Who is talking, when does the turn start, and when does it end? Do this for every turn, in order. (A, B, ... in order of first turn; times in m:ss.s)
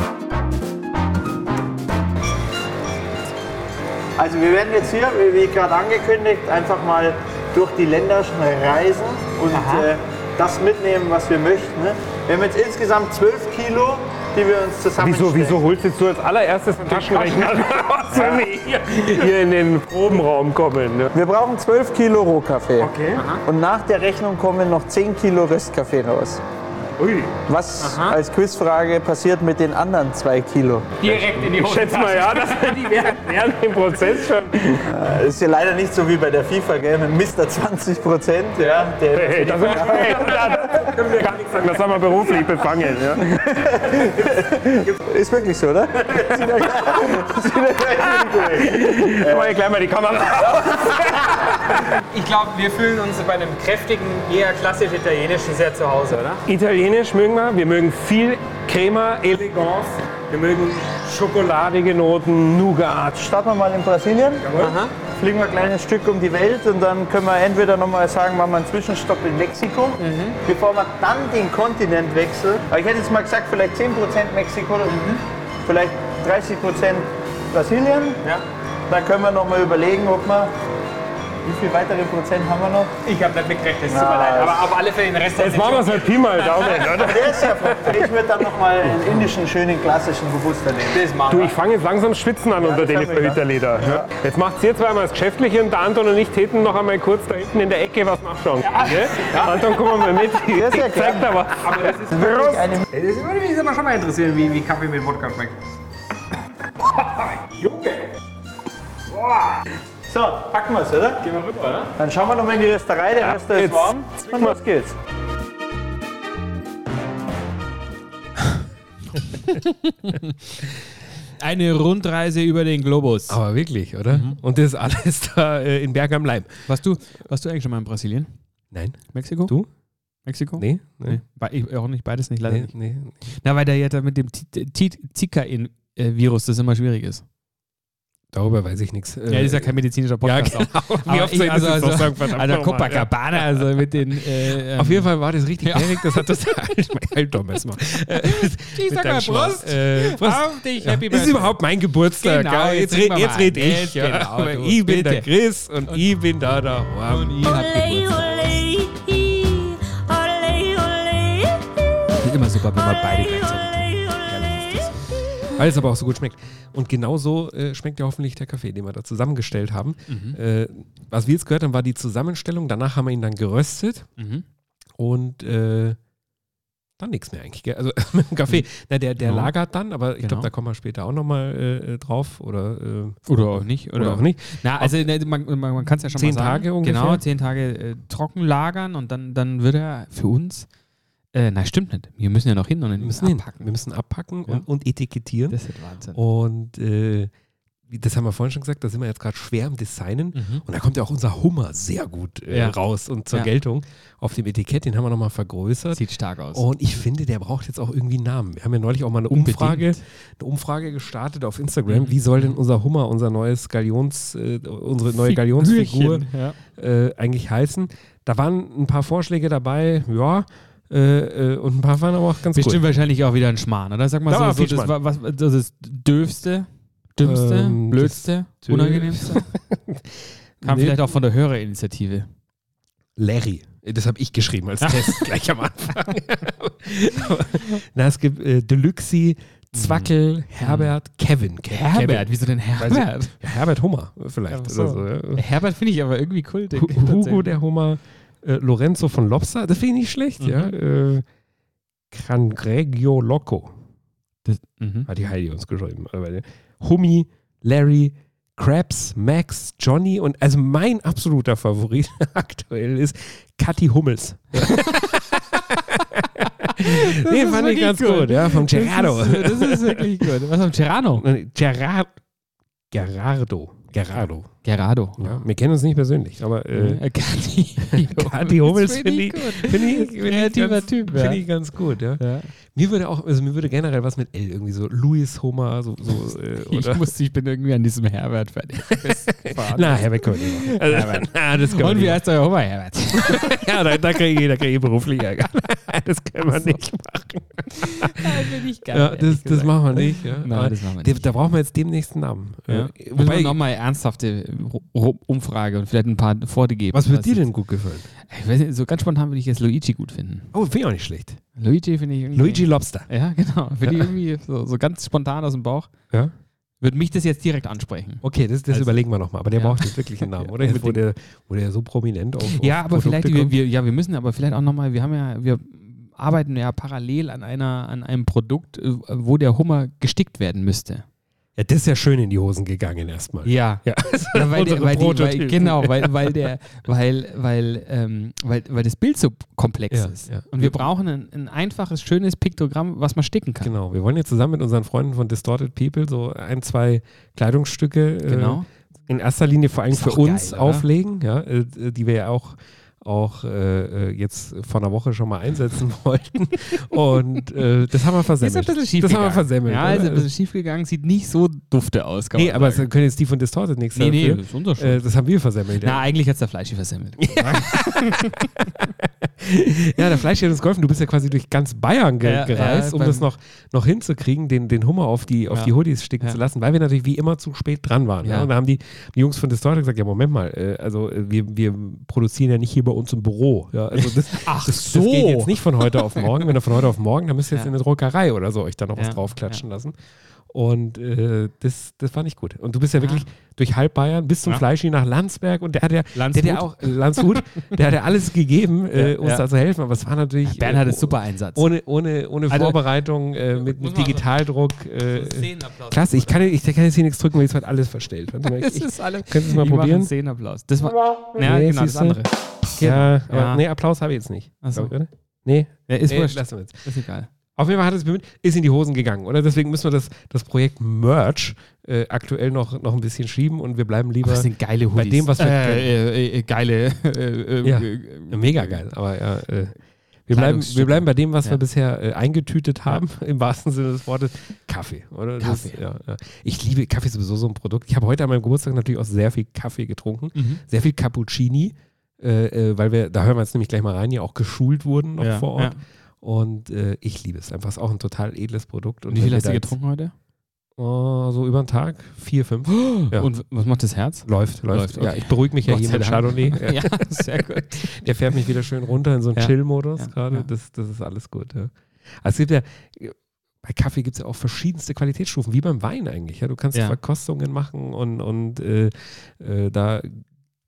0:04.2-0:15.7 A
0:09.5-0:09.9 B
0:15.0-0:21.1 C
0:16.9-0:17.4 B
0:21.1-0:26.4 A
0:22.8-0:23.4 B
0:27.0-0:27.3 C
0:27.5-0:30.9 A
0:27.8-0:28.2 B
0:31.0-0:33.2 B
0:31.1-0:34.8 C
0:34.9-0:40.6 A
0:39.1-0:43.7 C
0:43.6-0:49.6 A
0:48.6-0:51.1 C
0:51.9-0:56.4 B
0:56.5-1:02.8 C
1:03.0-1:18.2 A
1:04.6-1:05.0 B
1:10.0-1:10.4 B
1:18.9-1:20.5 A
1:21.4-1:23.0 A
1:23.0-1:27.4 B
1:23.9-1:24.7 A
1:25.4-1:28.0 C
1:27.0-1:31.2 A
1:30.9-1:31.6 B
1:31.3-1:42.6 C
1:32.6-1:34.1 A
1:38.6-1:40.2 B
1:40.5-1:41.3 A
1:41.6-1:42.2 B
1:42.1-1:42.8 A
1:42.9-1:45.6 B
1:47.2-1:48.1 B
1:49.2-1:49.5 B
1:50.1-1:51.2 A
1:51.2-1:51.9 B
1:52.0-1:54.8 A
1:53.5-1:54.6 C
2:00.1-2:00.3 D
2:01.4-2:03.4 D
2:03.3-2:06.7 E
2:04.1-2:04.4 D
2:06.7-2:08.3 D
2:08.7-2:09.7 E
2:09.1-2:09.6 D
2:10.2-2:12.7 D
2:10.6-2:11.2 E
2:12.4-2:13.2 E
2:13.3-2:17.2 D
2:18.3-2:23.8 E
2:19.3-2:26.2 D
2:24.4-2:37.4 E
2:28.2-2:31.6 D
2:32.2-2:35.3 D
2:37.1-2:39.1 D
2:42.2-2:45.1 D
2:45.5-2:54.1 E
2:50.1-2:50.4 D
2:54.2-2:54.4 D
2:55.0-2:56.0 E
2:57.0-3:05.1 E
2:59.2-2:59.5 D
3:00.2-3:00.5 D
3:03.3-3:10.7 D
3:06.2-3:07.2 E
3:11.3-3:13.7 D
3:13.0-3:15.6 E
3:15.5-3:16.2 D
3:16.1-3:17.3 E
3:17.9-3:42.8 E
3:20.4-3:20.6 D
3:22.5-3:22.8 D
3:25.9-3:26.6 D
3:29.3-3:30.0 D
3:31.9-3:32.4 D
3:35.2-3:36.6 D
3:42.5-3:49.5 D
3:44.3-3:45.0 E
3:47.2-3:51.1 E
3:50.6-3:52.3 D
3:53.2-4:05.5 E
3:54.8-3:55.2 D
3:59.7-4:00.9 D
4:01.7-4:03.4 D
4:04.5-4:07.5 D
4:06.8-4:11.3 E
4:10.4-4:10.7 D
4:12.1-4:13.7 E
4:14.4-4:15.1 D
4:15.1-4:30.3 E
4:26.8-4:31.2 D
4:31.2-4:32.1 E
4:32.9-4:34.5 E
4:34.6-4:35.4 D
4:35.2-4:37.0 E
4:36.7-4:41.5 D
4:37.8-4:47.1 E
4:42.2-4:42.5 D
4:46.6-4:53.7 D
4:48.9-4:52.2 E
4:53.2-5:03.6 E
4:57.8-5:01.3 D
5:02.7-5:07.5 D
5:06.9-5:08.1 E
5:08.2-5:10.5 D
5:10.5-5:11.4 E
5:11.6-5:15.9 D
5:12.3-5:13.1 E
5:13.8-5:14.1 E
5:16.8-5:19.0 D
5:18.2-5:23.6 E
5:19.5-5:21.0 D
5:22.5-5:31.0 D
5:31.6-5:36.4 E
5:33.4-5:43.7 D
5:39.9-5:40.9 E
5:43.6-6:00.3 E
5:48.3-5:48.7 D
5:49.9-5:50.9 D
5:58.4-6:02.9 D
6:02.4-6:06.0 E
6:04.0-6:05.1 D
6:05.8-6:08.4 D
6:07.3-6:30.0 E
6:12.2-6:13.3 D
6:15.5-6:16.4 D
6:18.2-6:18.5 D
6:24.0-6:26.5 D
6:29.0-6:29.6 D
6:30.5-6:50.1 E
6:33.0-6:33.2 D
6:36.2-6:37.4 D
6:38.9-6:39.4 D
6:40.4-6:41.7 D
6:42.5-6:42.8 D
6:43.6-6:44.2 D
6:45.1-6:46.5 D
6:48.4-6:53.6 D
6:51.4-6:52.2 E
6:52.8-6:56.8 E
6:54.6-6:54.9 D
6:55.9-6:57.3 D
6:57.6-7:05.9 E
7:04.2-7:08.8 D
7:07.6-7:29.8 E
7:10.3-7:11.6 D
7:15.4-7:15.8 D
7:20.4-7:20.6 D
7:25.2-7:25.8 D
7:29.1-7:30.1 D
7:30.8-7:33.3 E
7:32.7-7:38.0 D
7:34.2-7:50.2 E
7:39.4-7:40.5 D